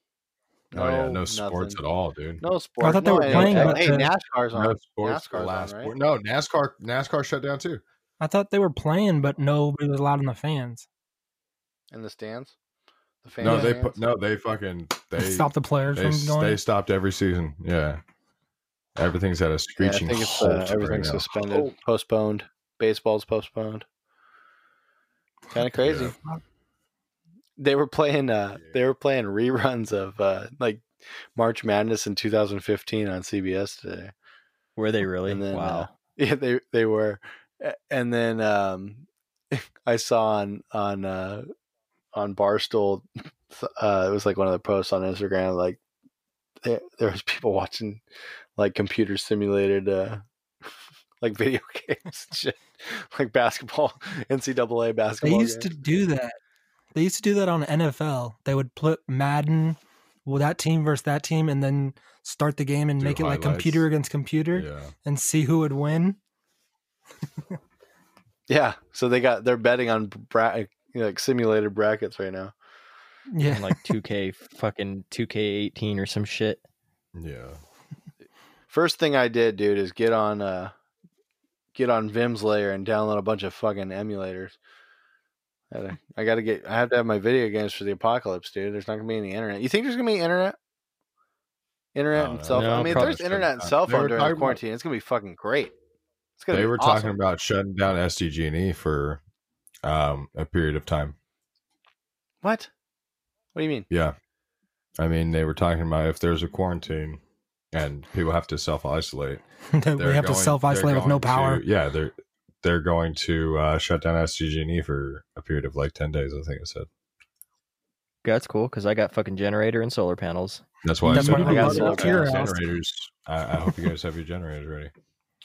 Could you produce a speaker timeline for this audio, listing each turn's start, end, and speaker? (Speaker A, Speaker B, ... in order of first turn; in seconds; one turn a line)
Speaker A: 0.7-1.8
Speaker B: 0.7-2.4
Speaker A: 2.4-5.9
Speaker C: 2.8-4.1
Speaker D: 3.3-3.8
Speaker B: 4.5-7.8
Speaker C: 8.2-10.9
Speaker A: 11.9-12.5
Speaker A: 13.2-14.0
Speaker B: 13.4-18.0
Speaker C: 13.4-13.8
Speaker C: 15.2-16.6
Speaker B: 19.0-21.7
Speaker A: 19.8-23.9
Speaker A: 25.5-26.1
Speaker B: 25.8-26.1
Speaker A: 27.6-34.1
Speaker D: 34.8-35.9
Speaker A: 35.2-41.5
Speaker A: 42.1-45.8
Speaker A: 46.6-48.0
Speaker A: 48.6-50.2
Speaker A: 51.2-55.7
Speaker C: 55.2-56.4
Speaker C: 56.9-66.2
Speaker B: 63.0-63.9
Speaker B: 64.5-64.9
Speaker A: 68.5-72.5
Speaker C: 73.3-73.8
Speaker D: 73.5-76.6
Speaker B: 77.1-77.6
Speaker A: 78.7-80.7
Speaker A: 81.8-84.5
Speaker A: 85.7-90.6
Speaker A: 91.9-95.7
Speaker B: 92.1-94.6
Speaker D: 92.5-93.2
Speaker A: 96.4-97.1
Speaker B: 96.5-99.2
Speaker B: 99.8-101.2
Speaker A: 102.4-102.7
Speaker A: 103.5-103.9
Speaker B: 103.9-104.1
Speaker B: 105.0-107.2
Speaker B: 107.7-109.4
Speaker C: 109.8-111.6
Speaker B: 110.0-116.9
Speaker D: 118.2-120.7
Speaker B: 120.8-124.9
Speaker C: 121.0-122.6
Speaker A: 121.1-122.3